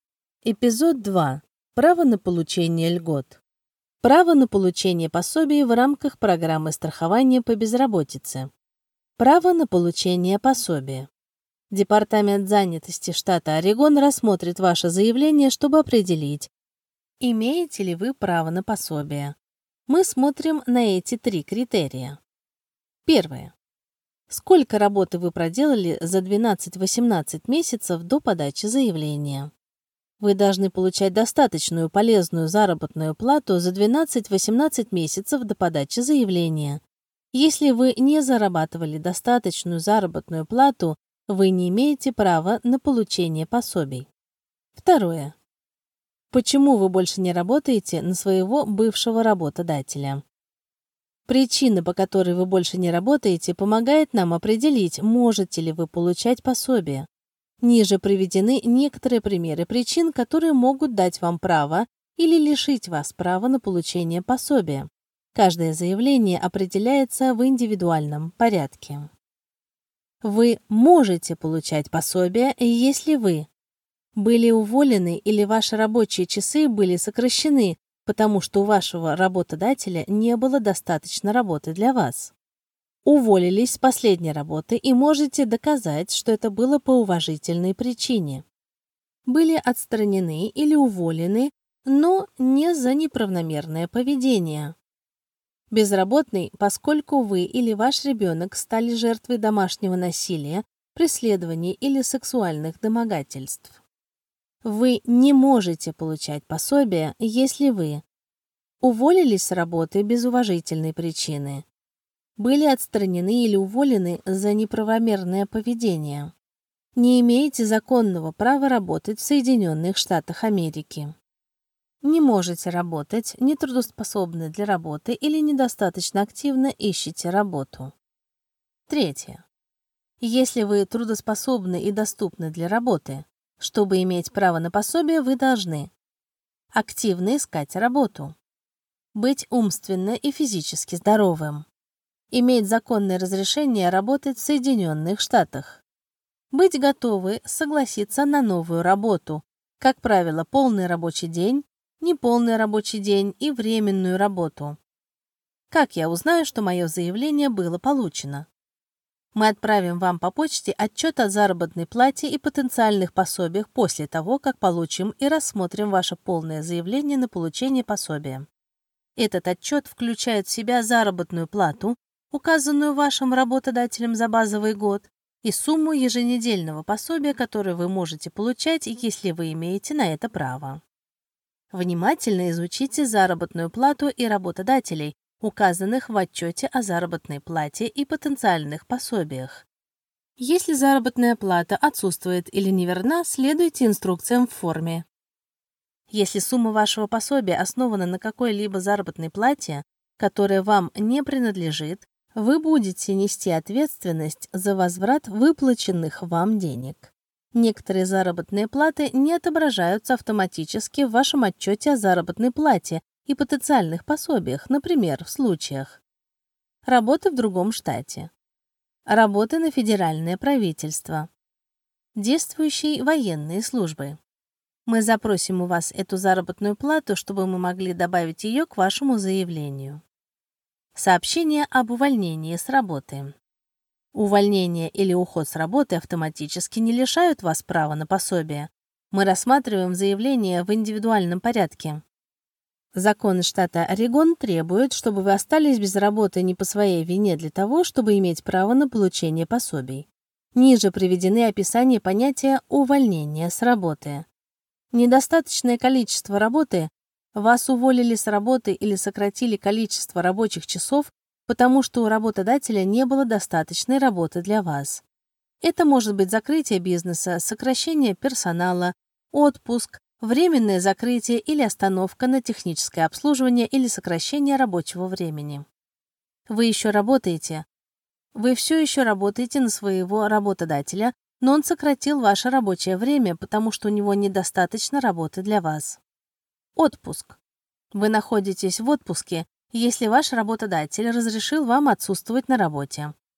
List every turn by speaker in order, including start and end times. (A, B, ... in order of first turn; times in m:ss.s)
0:00.4-0:03.4 A
0:04.0-0:08.5 A
0:09.2-0:11.1 A
0:11.7-0:16.5 A
0:17.2-0:19.4 A
0:19.9-0:22.2 A
0:23.0-0:23.5 A
0:24.3-0:29.5 A
0:30.2-0:36.8 A
0:37.3-0:44.1 A
0:44.7-0:45.3 A
0:46.3-0:50.2 A
0:51.3-0:57.1 A
0:57.6-1:09.1 A
1:10.2-1:13.5 A
1:14.1-1:22.3 A
1:23.0-1:28.4 A
1:29.2-1:34.7 A
1:35.7-1:43.8 A
1:44.6-1:48.0 A
1:48.8-1:51.6 A
1:52.4-1:56.3 A
1:57.0-2:01.1 A
2:02.0-2:07.9 A
2:08.9-2:09.4 A
2:10.2-2:15.9 A
2:16.7-2:18.4 A
2:19.1-2:21.7 A
2:22.3-2:25.8 A
2:26.5-2:34.8 A
2:35.7-2:38.5 A
2:39.3-2:48.5 A
2:49.2-3:00.8 A
3:01.7-3:09.6 A
3:10.4-3:15.0 A
3:16.1-3:36.0 A
3:36.8-3:38.3 A
3:39.1-3:41.3 A
3:42.1-3:44.2 A
3:44.8-3:50.0 A
3:50.9-3:53.3 A
3:54.1-4:02.0 A
4:02.9-4:14.3 A
4:14.9-4:25.0 A
4:25.6-4:35.6 A
4:36.5-4:37.6 A
4:38.3-4:46.0 A
4:46.8-4:47.4 A
4:47.9-4:53.1 A